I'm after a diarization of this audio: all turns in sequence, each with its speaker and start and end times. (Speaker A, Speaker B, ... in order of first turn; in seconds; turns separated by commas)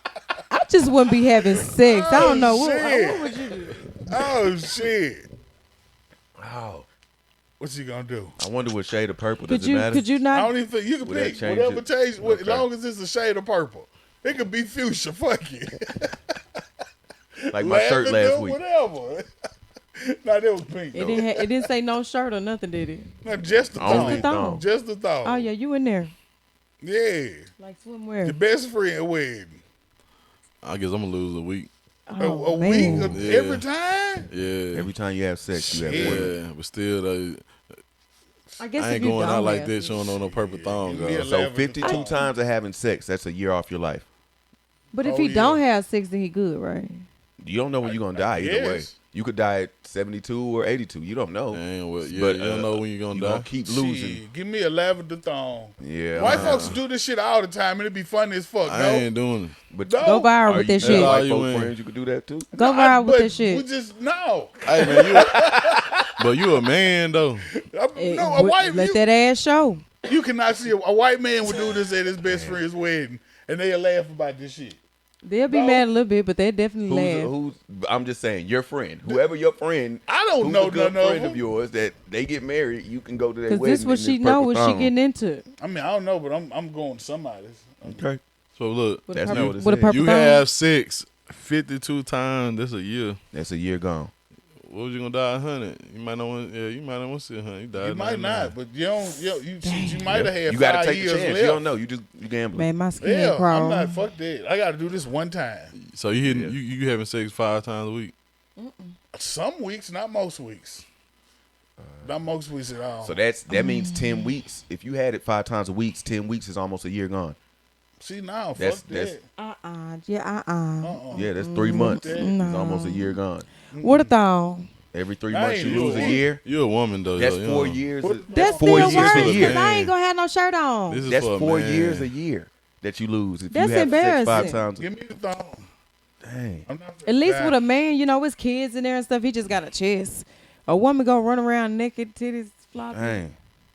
Speaker A: 0.5-3.9, Speaker B: 1.8-3.4, Speaker B: 4.0-5.3, Speaker C: 6.4-6.9, Speaker B: 7.6-8.4, Speaker C: 8.4-10.1, Speaker A: 9.5-10.5, Speaker B: 10.3-16.3, Speaker C: 11.0-12.7, Speaker B: 17.5-19.3, Speaker C: 17.5-18.6, Speaker B: 20.0-21.7, Speaker A: 20.9-23.1, Speaker B: 23.2-25.5, Speaker C: 23.8-24.6, Speaker A: 23.8-24.6, Speaker A: 25.2-26.1, Speaker B: 26.8-27.5, Speaker A: 27.6-28.4, Speaker B: 28.2-29.6, Speaker D: 30.6-31.7, Speaker A: 32.1-33.2, Speaker B: 32.2-34.3, Speaker D: 32.7-33.7, Speaker D: 34.3-34.9, Speaker C: 34.7-36.4, Speaker D: 35.5-37.5, Speaker B: 35.7-36.4, Speaker A: 38.6-40.0, Speaker D: 38.8-41.3, Speaker B: 40.1-42.3, Speaker C: 40.9-44.1, Speaker A: 41.8-42.1, Speaker A: 44.9-47.1, Speaker B: 45.0-45.6, Speaker C: 47.4-54.2, Speaker B: 47.8-49.0, Speaker D: 51.5-53.5, Speaker B: 53.6-59.1, Speaker C: 55.8-56.8, Speaker D: 56.2-56.8, Speaker D: 58.6-59.5, Speaker C: 59.7-62.5, Speaker B: 59.9-60.3, Speaker A: 60.0-61.2, Speaker D: 60.8-61.7, Speaker A: 62.5-63.6, Speaker B: 62.6-66.1, Speaker D: 64.6-65.3, Speaker C: 64.8-66.0, Speaker D: 66.2-67.5, Speaker B: 67.5-69.0, Speaker A: 68.0-69.8, Speaker B: 70.0-74.8, Speaker C: 72.2-72.6, Speaker A: 75.2-77.3, Speaker B: 75.5-75.9, Speaker C: 76.9-84.9, Speaker B: 80.1-81.4, Speaker A: 83.5-85.5, Speaker B: 85.6-88.1, Speaker C: 87.8-88.2, Speaker D: 88.6-93.2, Speaker A: 89.1-90.5, Speaker C: 89.1-90.0, Speaker C: 93.3-94.1, Speaker D: 94.6-98.5, Speaker B: 97.8-101.7, Speaker A: 99.6-100.1, Speaker C: 100.1-102.7, Speaker A: 102.5-104.0, Speaker B: 103.0-105.7, Speaker D: 105.7-108.1, Speaker C: 106.2-106.6, Speaker A: 108.6-109.0, Speaker B: 109.1-110.9, Speaker C: 111.8-112.1, Speaker B: 112.0-113.2, Speaker C: 113.0-117.4, Speaker A: 113.5-114.3, Speaker B: 118.0-119.3, Speaker C: 118.6-119.2, Speaker A: 119.4-123.2, Speaker B: 120.8-121.3, Speaker C: 121.1-123.5, Speaker B: 121.8-122.4, Speaker B: 123.7-124.1, Speaker A: 123.8-124.7, Speaker C: 124.9-126.4, Speaker B: 125.3-126.3, Speaker D: 125.6-127.8, Speaker C: 127.2-129.6, Speaker B: 128.0-129.0, Speaker A: 128.3-131.1, Speaker D: 128.7-129.9, Speaker D: 130.9-132.1, Speaker C: 131.1-134.9, Speaker A: 133.5-134.6, Speaker B: 134.3-135.7, Speaker C: 136.2-136.7, Speaker B: 136.7-137.6, Speaker A: 137.1-143.3, Speaker C: 142.9-143.3